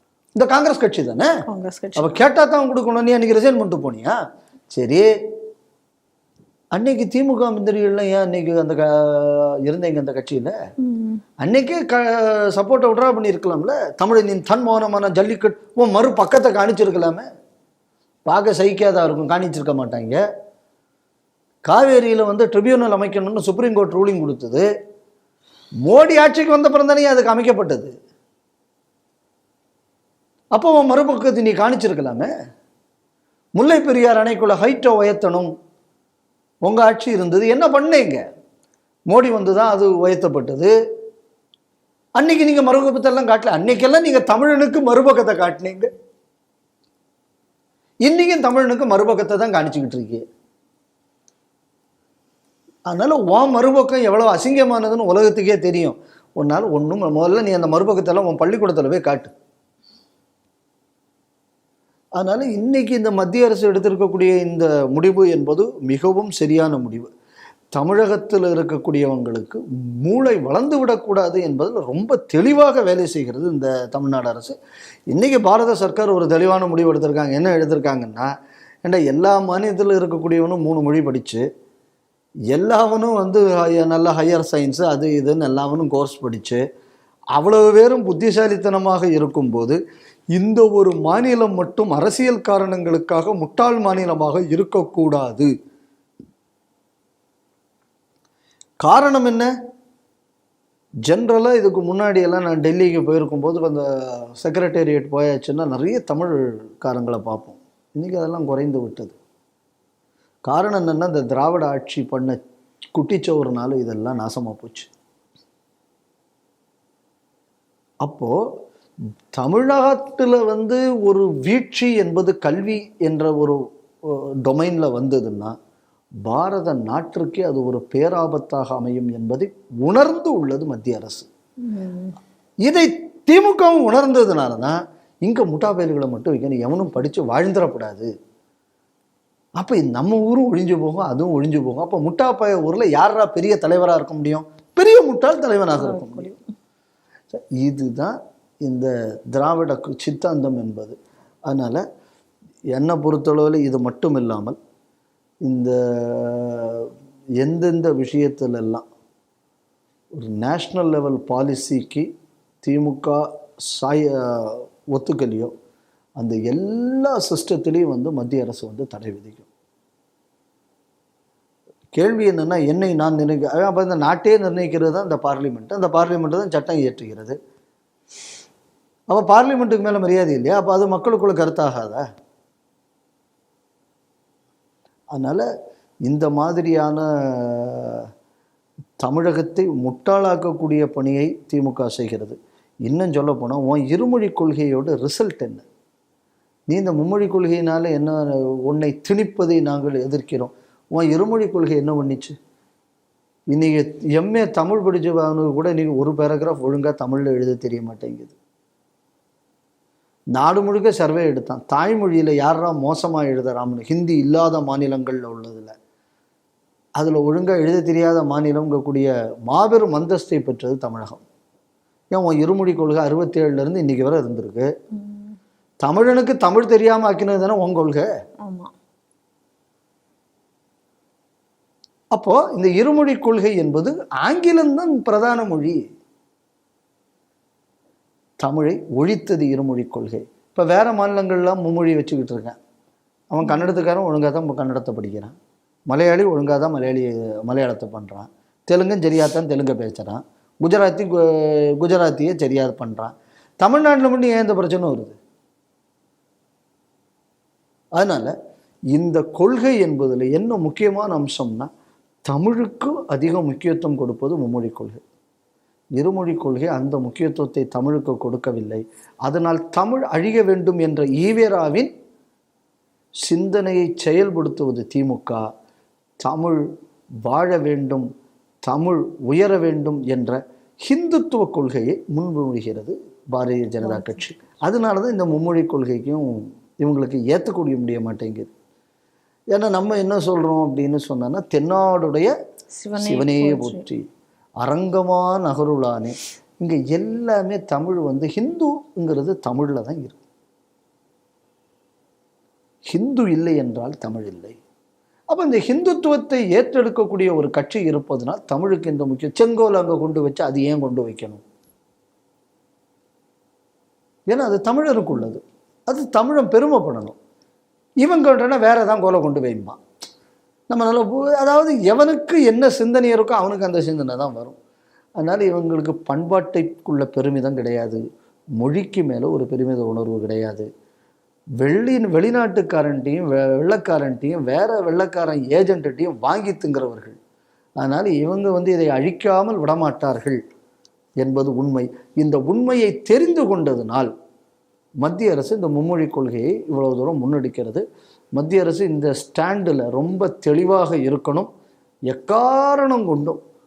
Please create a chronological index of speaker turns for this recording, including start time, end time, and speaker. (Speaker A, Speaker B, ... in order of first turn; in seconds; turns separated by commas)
Speaker A: 0.4-1.3, Speaker B: 1.5-2.2, Speaker A: 2.0-4.2, Speaker A: 4.7-5.1, Speaker A: 6.7-10.6, Speaker B: 10.8-11.2, Speaker A: 11.4-17.2, Speaker A: 18.3-20.2, Speaker A: 21.7-24.6, Speaker A: 25.9-27.9, Speaker A: 30.6-32.3, Speaker A: 33.6-35.5, Speaker A: 36.6-38.2, Speaker A: 39.1-40.7, Speaker A: 42.2-45.9, Speaker A: 48.0-50.2, Speaker A: 52.9-59.3, Speaker A: 62.2-67.1, Speaker A: 67.8-74.5, Speaker A: 75.1-78.3, Speaker A: 78.8-81.4, Speaker A: 82.5-86.6, Speaker A: 87.4-89.8, Speaker A: 90.3-95.5, Speaker A: 98.8-99.5, Speaker A: 101.1-103.8, Speaker A: 104.4-109.2, Speaker A: 110.5-112.4, Speaker A: 113.0-114.9, Speaker A: 118.0-118.3, Speaker A: 119.4-125.5, Speaker A: 126.3-131.3, Speaker B: 131.7-132.2, Speaker A: 132.6-138.1, Speaker A: 139.6-146.3, Speaker B: 145.8-146.4, Speaker A: 147.6-150.9, Speaker A: 151.5-151.8, Speaker A: 152.8-154.6, Speaker A: 155.4-156.9, Speaker A: 157.4-158.8, Speaker A: 160.2-162.1, Speaker A: 162.6-165.5, Speaker A: 166.2-169.5, Speaker A: 171.9-177.3, Speaker A: 179.1-182.0, Speaker A: 185.1-185.4, Speaker A: 186.1-188.1, Speaker A: 189.0-192.4, Speaker A: 192.9-195.7, Speaker A: 196.7-202.3, Speaker A: 203.5-208.3, Speaker A: 210.3-215.7, Speaker A: 217.0-221.2, Speaker A: 222.1-224.7, Speaker B: 224.9-225.4, Speaker A: 225.8-228.1, Speaker B: 228.4-228.7, Speaker A: 232.1-235.8, Speaker A: 238.4-242.6, Speaker A: 243.3-245.3, Speaker A: 245.9-255.2, Speaker A: 258.0-258.3, Speaker A: 258.9-261.7, Speaker A: 262.3-265.0, Speaker A: 266.0-271.9, Speaker A: 273.3-275.4, Speaker A: 276.2-276.6, Speaker A: 277.3-278.1, Speaker A: 278.7-288.5, Speaker B: 283.8-284.2, Speaker A: 289.5-292.3, Speaker B: 292.8-293.8, Speaker A: 293.0-294.0, Speaker A: 294.6-300.2, Speaker A: 302.9-304.6, Speaker A: 305.3-311.4, Speaker A: 314.3-317.2, Speaker A: 318.0-319.8, Speaker A: 320.7-324.6, Speaker A: 325.2-328.0, Speaker A: 328.6-330.7, Speaker A: 331.6-337.2, Speaker A: 337.8-340.4, Speaker A: 341.2-344.1, Speaker A: 345.0-347.8, Speaker A: 348.4-351.5, Speaker A: 352.1-353.4